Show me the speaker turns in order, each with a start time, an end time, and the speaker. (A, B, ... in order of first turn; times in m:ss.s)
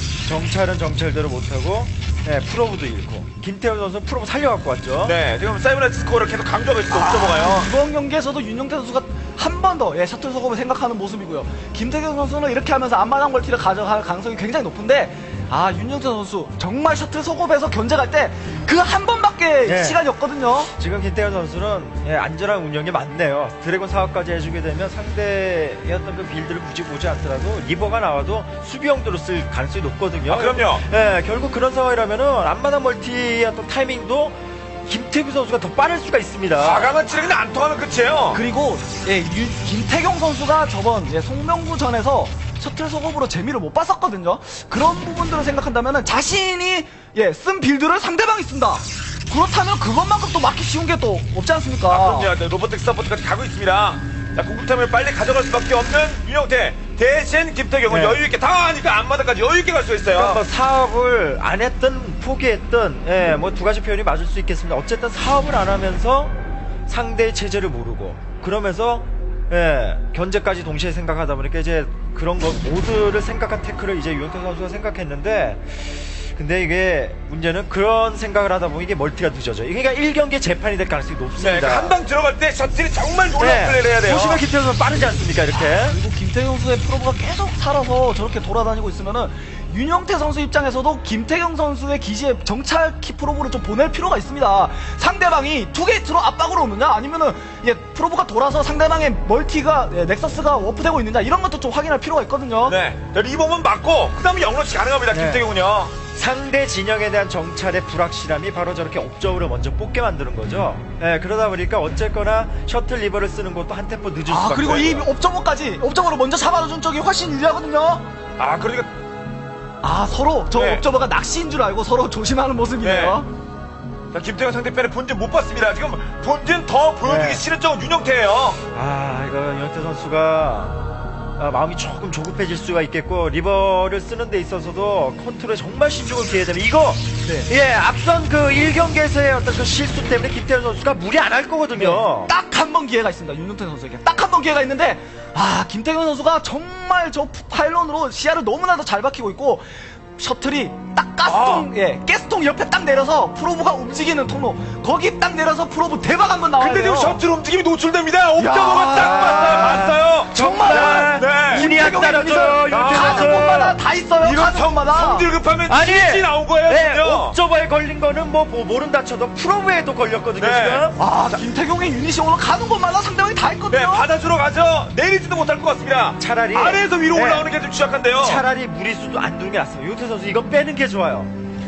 0:00.2-0:05.2 A
0:05.0-0:07.7 B
0:06.9-0:20.7 C
0:19.6-0:20.0 A
0:20.7-0:36.9 A
0:30.3-0:30.8 B
0:36.6-0:38.4 B
0:38.3-0:52.3 C
0:51.9-1:00.4 B
0:57.9-0:58.2 A
1:00.1-1:06.3 A
1:06.9-1:22.0 A
1:21.4-1:24.4 B
1:23.4-1:26.0 A
1:25.5-1:42.8 C
1:42.6-1:45.9 B
1:45.1-1:45.4 A
1:46.1-1:55.1 A
1:54.2-1:58.1 C
1:58.4-1:58.9 B
1:59.8-2:03.3 C
2:00.5-2:00.8 B
2:02.8-2:03.2 B
2:04.1-2:08.6 B
2:07.0-2:07.4 A
2:08.7-2:10.8 A
2:11.4-2:22.3 A
2:17.2-2:17.5 C
2:21.7-2:37.2 C
2:31.2-2:31.7 B
2:36.6-2:41.7 B
2:38.4-2:45.3 C
2:38.8-2:43.8 A
2:42.7-2:43.6 B
2:44.2-2:47.4 B
2:45.7-2:51.0 A
2:50.4-2:50.9 B
2:51.0-2:54.1 C
2:53.7-2:58.4 B
2:56.2-2:57.5 A
2:58.2-3:01.3 A